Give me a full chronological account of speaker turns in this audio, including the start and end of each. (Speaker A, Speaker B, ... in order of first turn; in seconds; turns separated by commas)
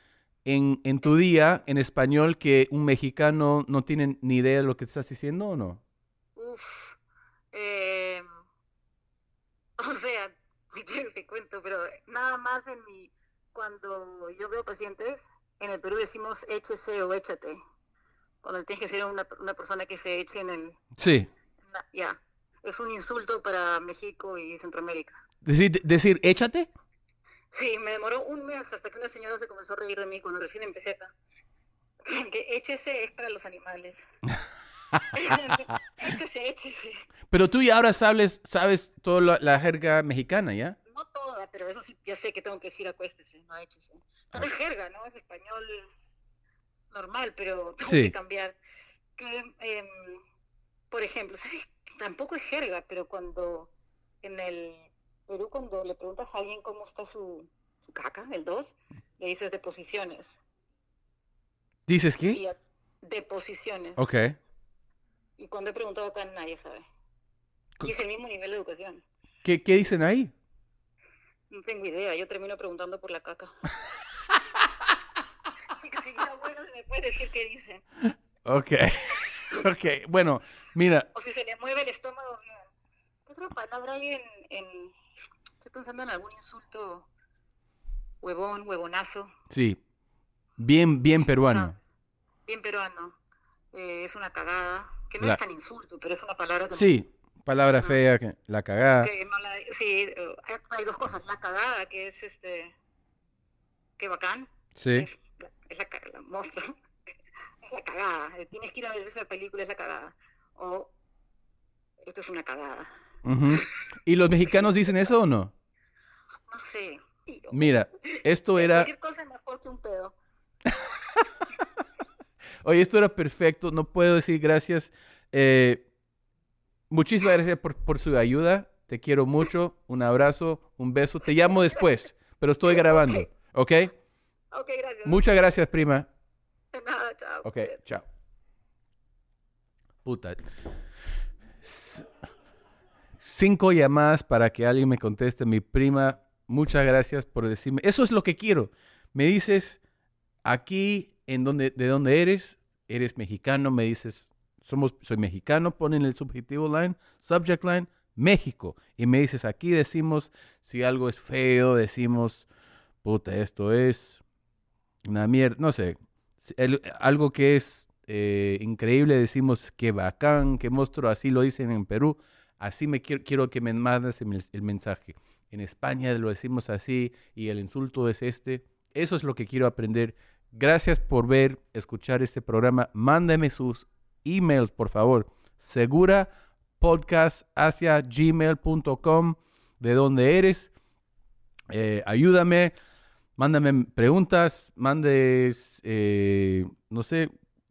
Speaker A: 0.5-5.8, Speaker B: 6.4-7.0, Speaker B: 7.5-8.3, Speaker B: 9.8-17.6, Speaker B: 18.4-20.8, Speaker A: 21.0-21.3, Speaker B: 21.7-25.2, Speaker A: 25.4-26.7, Speaker B: 27.5-31.1, Speaker B: 32.0-34.1, Speaker B: 35.1-37.1, Speaker A: 37.3-40.8, Speaker B: 40.9-45.8, Speaker B: 46.9-48.6, Speaker A: 47.8-48.1, Speaker B: 49.2-50.2, Speaker B: 50.9-53.7, Speaker B: 54.2-60.4, Speaker A: 61.9-62.4, Speaker B: 62.3-64.1, Speaker A: 64.0-64.4, Speaker B: 65.4-66.9, Speaker B: 67.8-69.0, Speaker A: 69.4-70.3, Speaker B: 71.5-73.5, Speaker B: 75.7-77.8, Speaker A: 78.5-81.1, Speaker B: 81.1-82.7, Speaker B: 83.3-84.9, Speaker B: 85.6-87.1, Speaker B: 88.2-89.3, Speaker A: 89.5-89.8, Speaker A: 90.6-91.7, Speaker B: 91.4-92.0, Speaker B: 92.5-93.2, Speaker B: 93.7-96.9, Speaker A: 96.8-99.1, Speaker B: 99.0-102.7, Speaker B: 104.0-106.8, Speaker A: 104.8-105.1, Speaker B: 107.6-110.9, Speaker B: 112.0-112.9, Speaker A: 113.2-115.5, Speaker B: 114.5-114.9, Speaker B: 116.5-120.2, Speaker A: 117.5-118.9, Speaker A: 122.6-125.8, Speaker A: 126.9-133.9, Speaker B: 132.7-133.2, Speaker B: 134.5-135.3, Speaker A: 135.1-136.1, Speaker B: 136.7-137.8, Speaker A: 137.4-138.1, Speaker A: 140.1-140.4, Speaker A: 141.6-142.1, Speaker A: 143.2-149.8, Speaker A: 150.4-162.5, Speaker A: 163.0-164.2, Speaker A: 165.1-190.7, Speaker A: 191.7-192.7, Speaker A: 193.4-197.3